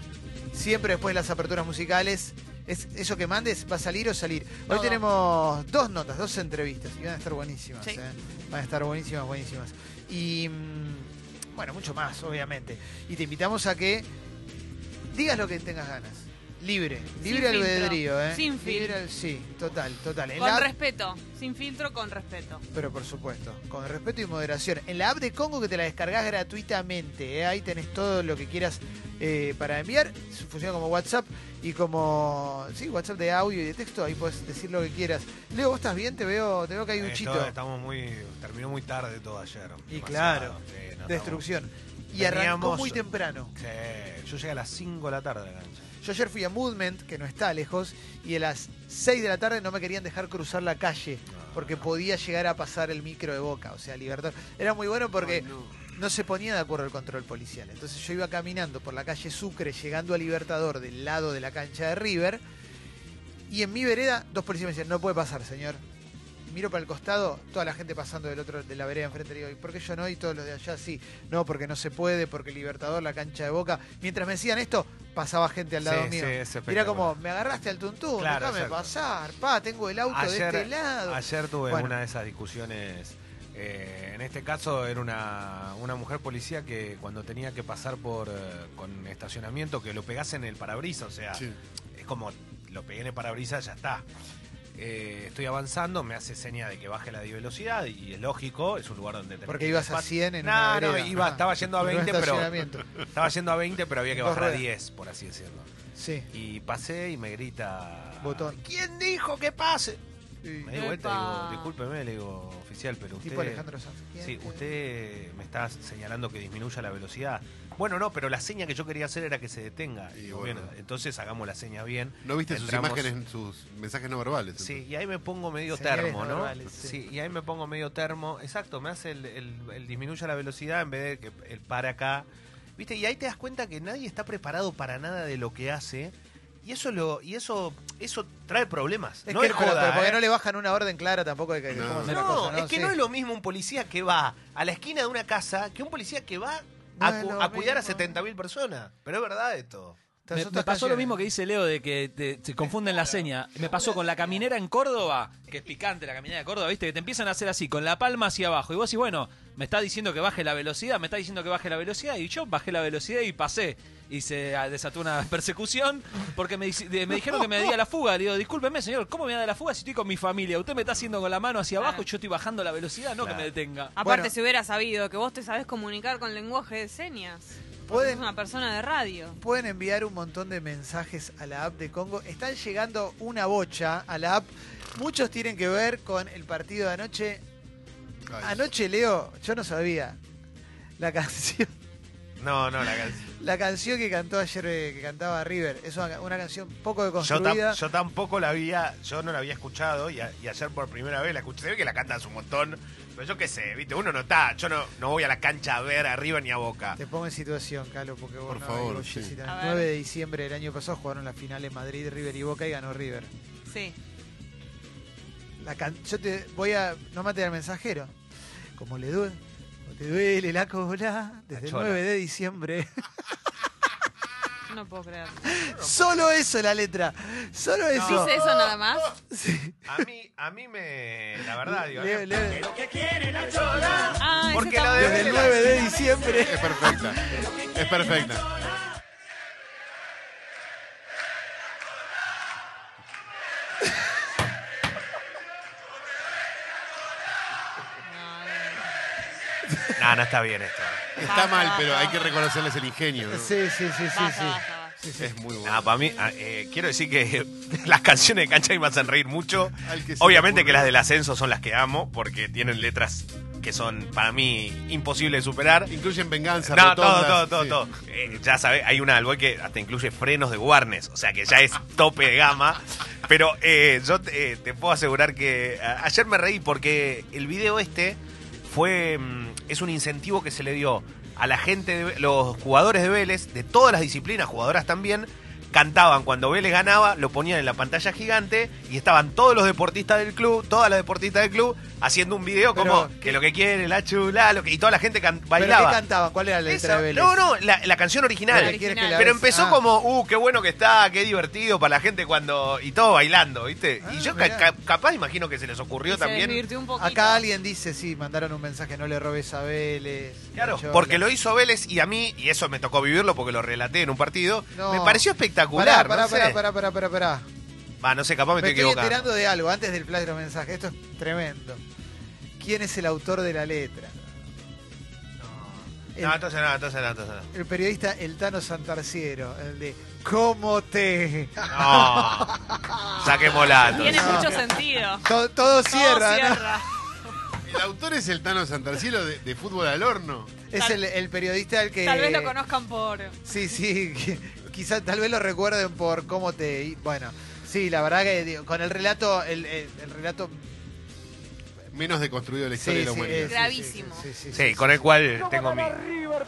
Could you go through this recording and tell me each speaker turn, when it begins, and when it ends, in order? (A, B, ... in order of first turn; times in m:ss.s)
0:00.5-0:14.1 A
0:04.7-0:05.0 B
0:15.1-0:20.7 A
0:17.2-0:19.0 B
0:20.4-0:22.6 B
0:22.7-0:37.5 A
0:37.0-0:41.4 C
0:39.9-0:43.5 A
0:42.1-0:43.0 C
0:43.6-0:45.9 C
0:46.0-1:02.4 A
0:51.3-0:51.8 C
0:55.2-0:55.8 D
1:03.5-1:05.8 A
1:06.4-1:21.9 A
1:15.8-1:17.1 C
1:18.2-1:18.9 C
1:20.1-1:31.4 C
1:31.9-1:34.0 C
1:34.8-1:42.5 C
1:39.5-1:42.9 A
1:43.1-1:45.7 C
1:44.1-1:44.6 A
1:46.0-1:46.3 A
1:46.3-1:50.0 C
1:48.2-1:48.6 A
1:50.4-1:50.8 A
1:50.6-1:53.6 C
1:50.7-1:51.7 B
1:53.2-1:54.6 A
1:54.2-2:03.1 C
2:00.1-2:00.7 D
2:02.2-2:04.8 D
2:04.6-2:12.2 C
2:05.7-2:07.0 A
2:12.8-2:20.2 C
2:19.2-2:23.0 A
2:21.7-2:22.2 D
2:22.0-2:30.0 C
2:27.0-2:28.1 A
2:30.3-2:31.1 A
2:30.3-2:53.9 E
2:51.8-2:52.0 B
2:53.2-2:53.5 C
2:54.0-2:59.4 B
2:54.0-2:54.3 A
2:57.9-2:58.2 A
2:59.4-3:07.4 A
3:08.3-3:08.6 D
3:08.4-3:10.2 A
3:11.0-3:11.7 A
3:12.4-3:13.3 C
3:13.4-3:17.8 A
3:17.2-3:27.0 C
3:27.0-3:33.3 A
3:28.5-3:29.4 D
3:29.4-3:29.9 B
3:33.7-3:34.0 B
3:35.6-3:38.1 A
3:38.8-3:42.9 A
3:41.5-3:42.0 C
3:44.7-3:45.5 B
3:45.4-3:48.4 A
3:45.6-3:46.2 C
3:48.0-3:48.3 C
3:48.0-3:49.1 B
3:49.3-3:49.9 A
3:49.9-3:52.4 C
3:51.7-3:52.7 A
3:54.2-3:55.6 B
3:54.5-3:55.8 C
3:55.0-3:57.0 A
3:56.4-3:58.4 D
4:08.0-4:08.8 B
4:10.0-4:11.2 C
4:11.2-4:13.5 D
4:11.2-4:12.2 B
4:13.3-4:15.3 A
4:14.1-4:14.9 B
4:15.2-4:15.9 D
4:15.6-4:25.9 C
4:19.8-4:20.9 D
4:25.9-4:27.8 D
4:26.6-4:56.0 C
4:52.7-4:53.4 A
4:55.6-4:57.4 A
4:56.7-5:06.6 C
4:58.5-4:59.8 A
4:58.5-4:59.3 B
5:04.0-5:04.7 A
5:06.1-5:07.4 B
5:07.0-5:11.2 A
5:10.5-5:16.6 C
5:14.7-5:17.4 A
5:18.0-5:19.3 C
5:18.6-5:21.8 A
5:22.6-5:24.2 A
5:25.4-5:27.5 C
5:27.5-5:32.4 A
5:31.7-5:32.6 C
5:33.2-5:34.6 C
5:33.9-5:35.2 B
5:34.1-5:34.6 A
5:35.2-5:36.8 A
5:35.9-5:36.8 B
5:37.6-5:40.5 D
5:40.7-5:42.5 A
5:42.0-5:43.4 B
5:43.4-5:50.8 A
5:51.9-5:53.6 D
5:52.7-5:54.9 A
5:53.4-5:54.2 B
5:54.5-5:56.1 C